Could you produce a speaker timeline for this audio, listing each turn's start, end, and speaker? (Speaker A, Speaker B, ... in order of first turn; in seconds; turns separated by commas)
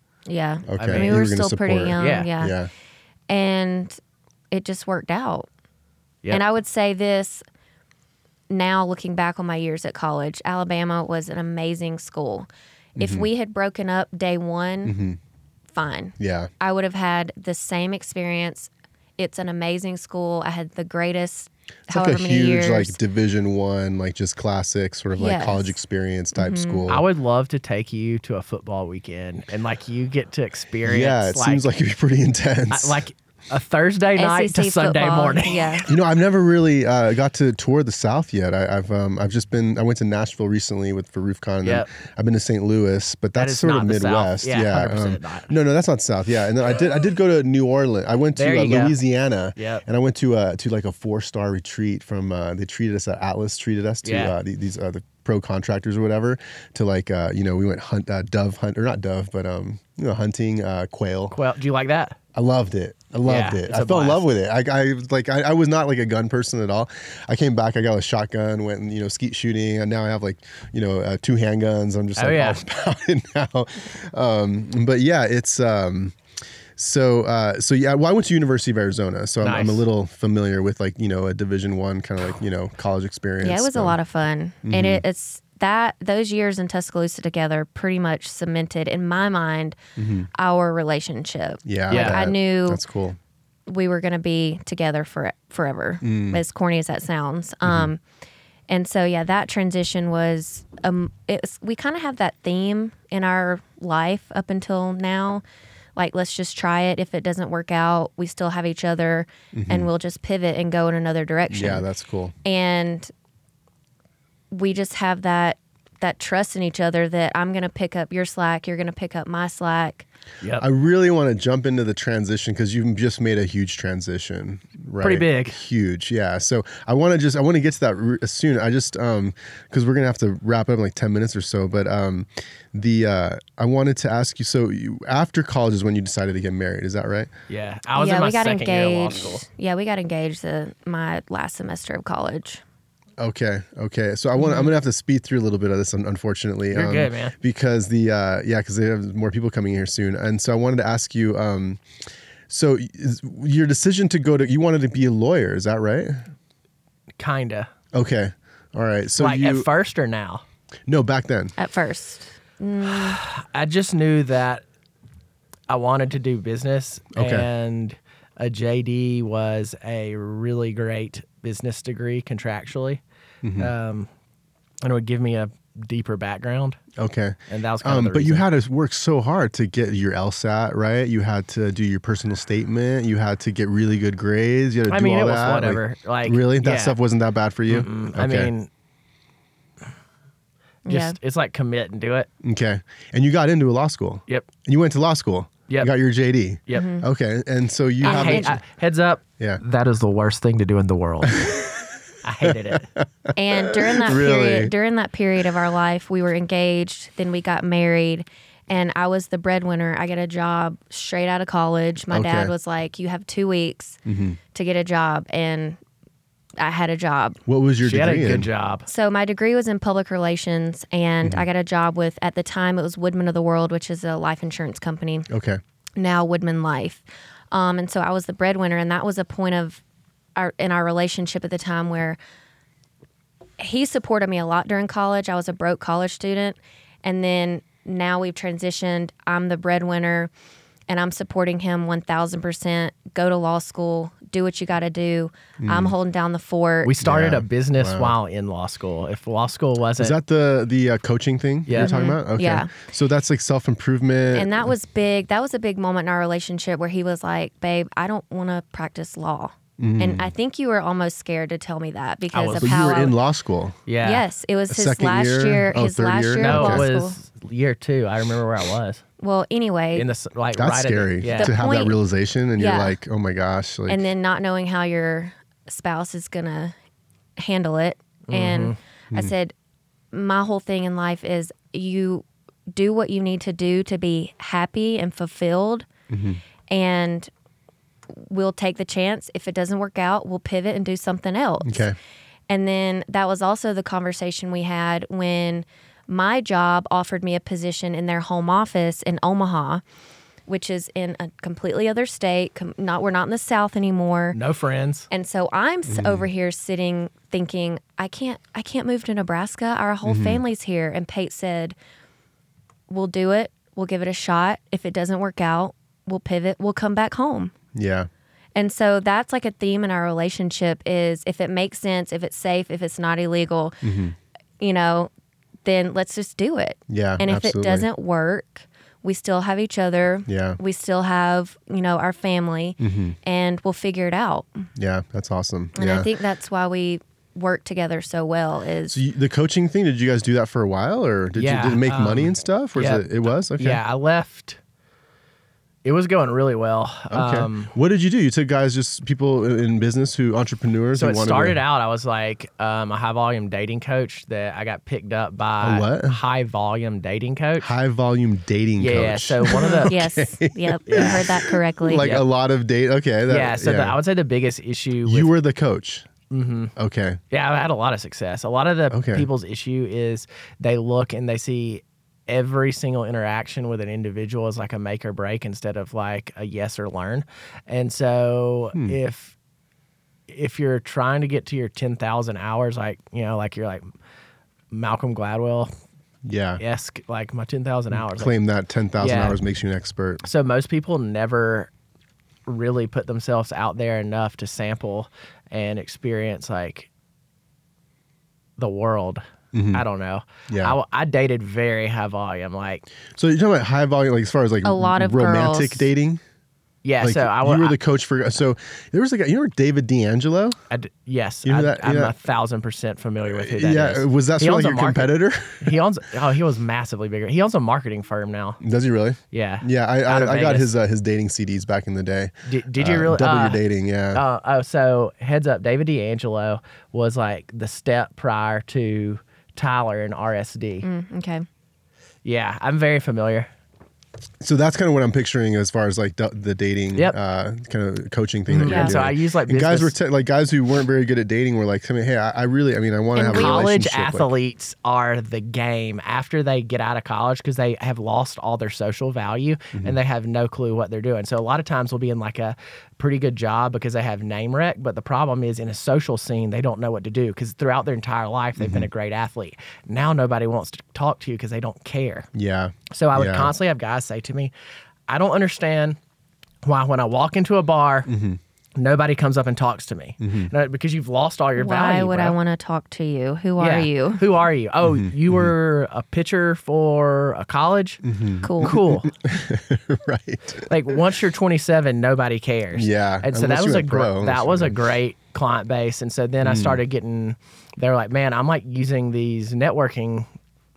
Speaker A: 0.3-2.6, Speaker B: 0.7-2.7, Speaker C: 0.8-1.2, Speaker C: 2.0-2.3, Speaker A: 3.3-4.0, Speaker A: 4.5-5.5, Speaker A: 6.3-7.4, Speaker A: 8.5-15.0, Speaker B: 13.0-13.3, Speaker B: 14.8-15.2, Speaker A: 15.7-23.0, Speaker B: 16.2-16.5, Speaker B: 21.9-27.1, Speaker A: 25.2-25.8, Speaker A: 26.4-26.8, Speaker C: 26.9-31.6, Speaker B: 30.8-33.0, Speaker C: 32.7-35.9, Speaker A: 34.2-35.9, Speaker B: 35.9-61.4, Speaker C: 43.4-45.5, Speaker C: 48.4-49.0, Speaker C: 49.6-49.8, Speaker C: 54.0-54.4, Speaker C: 61.3-62.2, Speaker B: 62.4-76.2, Speaker C: 63.3-64.2, Speaker C: 72.2-72.6, Speaker B: 76.8-84.0, Speaker C: 79.4-79.8, Speaker A: 83.4-89.8, Speaker B: 84.7-85.0, Speaker B: 90.0-90.3, Speaker A: 90.3-92.8, Speaker B: 91.7-93.2, Speaker C: 91.9-92.2, Speaker A: 93.7-98.0, Speaker B: 96.0-96.4, Speaker A: 98.7-105.4, Speaker A: 106.0-111.9, Speaker B: 109.5-109.9, Speaker B: 111.5-112.3, Speaker A: 112.4-113.1, Speaker A: 114.5-120.1, Speaker C: 120.4-120.7, Speaker B: 120.6-137.3, Speaker C: 125.0-125.6, Speaker C: 137.5-139.4, Speaker A: 138.0-142.6, Speaker B: 143.2-151.8, Speaker A: 144.4-144.7, Speaker C: 146.7-147.3, Speaker B: 152.5-156.2, Speaker C: 157.2-157.7, Speaker B: 157.9-159.7, Speaker C: 159.2-160.4, Speaker B: 160.9-161.6, Speaker A: 161.6-163.2, Speaker C: 162.8-164.6, Speaker C: 165.7-173.0, Speaker B: 167.2-167.5, Speaker B: 173.4-173.7, Speaker C: 173.6-174.1, Speaker C: 174.8-176.8, Speaker B: 177.0-188.5, Speaker C: 177.5-178.4, Speaker C: 184.9-187.0, Speaker C: 187.7-188.7, Speaker A: 190.8-191.2, Speaker C: 190.9-192.3, Speaker B: 192.4-198.6, Speaker A: 196.7-197.1, Speaker A: 198.0-198.6, Speaker C: 198.0-201.5, Speaker B: 201.3-204.7, Speaker C: 202.2-202.9, Speaker A: 203.3-214.0, Speaker B: 212.1-212.5, Speaker B: 214.1-214.4, Speaker A: 214.5-215.8, Speaker A: 216.6-217.4, Speaker B: 217.5-218.5, Speaker C: 217.8-218.9, Speaker A: 218.9-225.3, Speaker B: 225.3-225.6, Speaker A: 226.0-229.8, Speaker A: 230.4-232.2, Speaker A: 233.6-240.3, Speaker A: 240.9-246.9, Speaker B: 245.6-245.9, Speaker C: 246.8-250.2, Speaker B: 247.0-248.2, Speaker B: 250.0-254.7, Speaker C: 251.7-252.0, Speaker A: 251.8-252.7, Speaker A: 254.3-263.1, Speaker B: 259.8-260.3, Speaker C: 262.3-263.1, Speaker B: 262.6-263.8, Speaker C: 263.9-264.2, Speaker A: 264.0-267.2, Speaker B: 264.7-266.9, Speaker C: 266.4-269.0, Speaker A: 269.2-270.1, Speaker C: 269.9-271.6, Speaker B: 270.5-274.0, Speaker A: 271.3-272.0, Speaker A: 272.6-273.0, Speaker A: 273.9-276.7, Speaker A: 277.4-279.5, Speaker C: 278.3-278.8, Speaker A: 280.1-285.9, Speaker B: 286.1-286.4, Speaker A: 286.7-287.3, Speaker A: 288.1-291.9, Speaker B: 291.6-292.0, Speaker A: 292.5-299.8, Speaker A: 300.5-304.4, Speaker C: 304.3-305.1, Speaker A: 305.1-311.8, Speaker B: 305.9-306.2, Speaker B: 310.1-310.4, Speaker A: 312.9-317.5, Speaker B: 317.7-318.1, Speaker A: 318.6-323.8, Speaker B: 323.8-324.2, Speaker A: 324.6-325.1, Speaker A: 325.6-334.6, Speaker B: 326.9-327.9, Speaker B: 330.3-330.6, Speaker B: 332.8-333.2, Speaker B: 334.8-336.1, Speaker A: 335.8-339.0, Speaker B: 338.9-343.8, Speaker C: 341.4-344.6, Speaker C: 345.8-347.7, Speaker B: 347.1-351.6, Speaker C: 350.9-357.7, Speaker B: 355.6-356.2, Speaker B: 357.6-364.0, Speaker C: 358.8-360.0, Speaker A: 359.5-362.1, Speaker C: 360.9-361.3, Speaker C: 362.0-362.3, Speaker C: 363.3-365.3, Speaker B: 365.1-366.1, Speaker C: 366.3-366.7, Speaker B: 366.8-367.2, Speaker C: 367.3-379.4, Speaker B: 368.9-369.3, Speaker C: 380.3-383.9, Speaker C: 384.7-385.7, Speaker B: 386.2-386.6, Speaker C: 386.6-388.4, Speaker B: 387.9-390.2, Speaker C: 389.0-389.4, Speaker C: 390.2-391.7, Speaker C: 392.5-396.9, Speaker C: 398.6-402.9, Speaker B: 399.5-399.9, Speaker B: 400.5-400.8, Speaker B: 403.1-406.2, Speaker A: 404.6-405.9, Speaker C: 406.8-407.8, Speaker B: 407.0-410.6, Speaker C: 410.7-418.6, Speaker B: 411.4-412.1, Speaker B: 413.3-415.8, Speaker B: 418.6-424.2, Speaker C: 419.3-420.7, Speaker C: 422.5-423.6, Speaker C: 424.1-430.9, Speaker A: 430.8-431.5, Speaker C: 432.2-433.5, Speaker B: 434.4-444.3, Speaker C: 438.5-439.9, Speaker A: 438.6-439.0, Speaker A: 443.2-443.7, Speaker C: 443.3-462.3, Speaker B: 458.6-458.9, Speaker B: 462.3-463.5, Speaker C: 462.9-464.5, Speaker C: 465.1-466.0, Speaker C: 466.6-468.1, Speaker B: 468.1-468.4, Speaker C: 468.8-472.4, Speaker B: 470.2-470.5, Speaker A: 471.6-474.2, Speaker C: 473.6-478.0, Speaker B: 474.8-475.5, Speaker B: 478.0-481.0, Speaker A: 478.4-478.8, Speaker C: 478.6-479.1, Speaker C: 480.7-490.3, Speaker B: 482.7-484.8, Speaker B: 486.4-486.8